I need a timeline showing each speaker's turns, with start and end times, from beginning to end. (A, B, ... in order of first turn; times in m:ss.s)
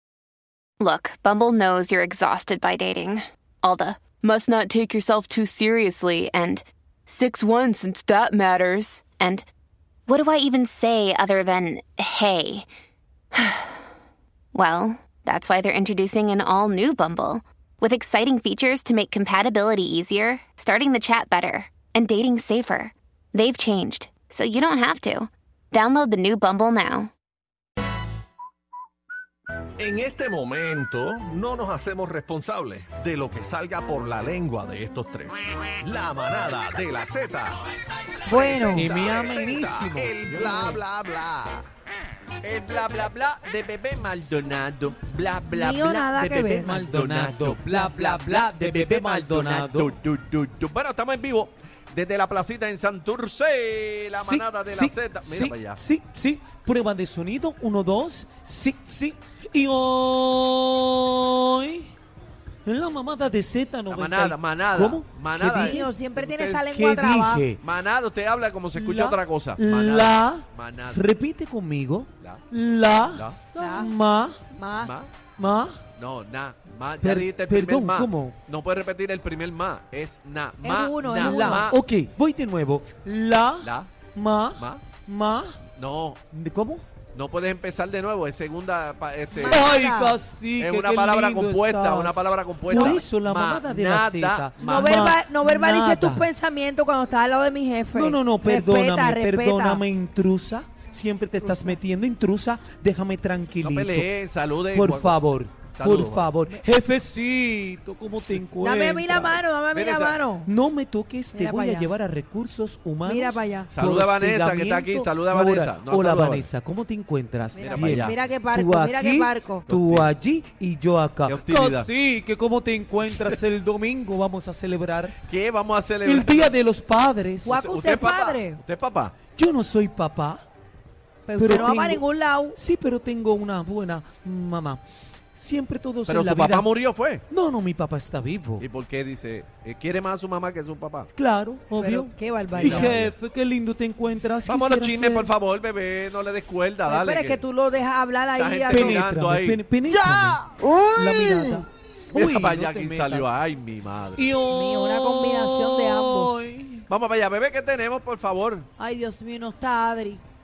0:00.8-0:09.4 A
0:10.1-0:12.7 A
0:13.4-0:13.8 A
0:14.5-0:27.1 A
0:29.8-0:37.6 B
0:38.2-0:41.7 B
0:38.3-0:38.9 C
0:38.7-0:40.8 D
0:42.4-0:55.8 E
0:45.5-0:46.9 C
0:46.4-0:49.9 D
0:54.2-1:01.9 D
1:02.6-1:07.6 D
1:03.9-1:06.4 E
1:05.5-1:07.4 C
1:07.6-1:11.0 E
1:08.8-1:14.4 D
1:13.1-1:13.4 E
1:13.6-1:13.9 C
1:14.5-1:14.9 C
1:14.8-1:15.1 E
1:15.4-1:15.8 D
1:16.0-1:21.8 E
1:17.0-1:18.4 D
1:20.6-1:21.7 C
1:21.2-1:25.6 D
1:23.6-1:23.9 E
1:24.6-1:24.8 E
1:25.8-1:26.2 E
1:26.3-1:26.8 D
1:27.1-1:29.7 E
1:29.3-1:36.3 D
1:29.3-1:30.2 C
1:30.6-1:35.2 E
1:32.7-1:33.0 C
1:34.6-1:39.8 C
1:37.9-1:44.1 D
1:41.4-1:41.8 C
1:43.6-1:46.3 E
1:44.7-1:49.4 D
1:48.6-1:50.5 C
1:49.7-1:50.2 E
1:50.5-2:05.2 D
1:51.3-1:51.9 C
1:53.0-1:53.7 C
1:53.7-1:56.5 E
1:57.5-1:59.7 C
1:57.7-1:58.2 E
1:59.7-2:00.1 E
2:01.3-2:01.9 E
2:05.2-2:06.6 E
2:06.0-2:07.6 D
2:07.4-2:08.6 C
2:07.5-2:09.2 E
2:09.3-2:10.4 D
2:11.3-2:12.6 C
2:11.4-2:14.8 D
2:15.4-2:16.7 D
2:16.1-2:17.2 E
2:17.3-2:18.6 D
2:18.6-2:21.1 E
2:21.2-2:25.3 D
2:21.8-2:23.0 C
2:22.6-2:23.1 E
2:24.5-2:27.4 E
2:26.8-2:29.0 C
2:28.3-2:29.6 E
2:28.7-2:30.4 D
2:31.0-2:33.3 D
2:32.1-2:34.2 E
2:34.2-2:36.9 D
2:34.5-2:36.4 C
2:36.9-2:38.7 E
2:38.8-2:40.2 C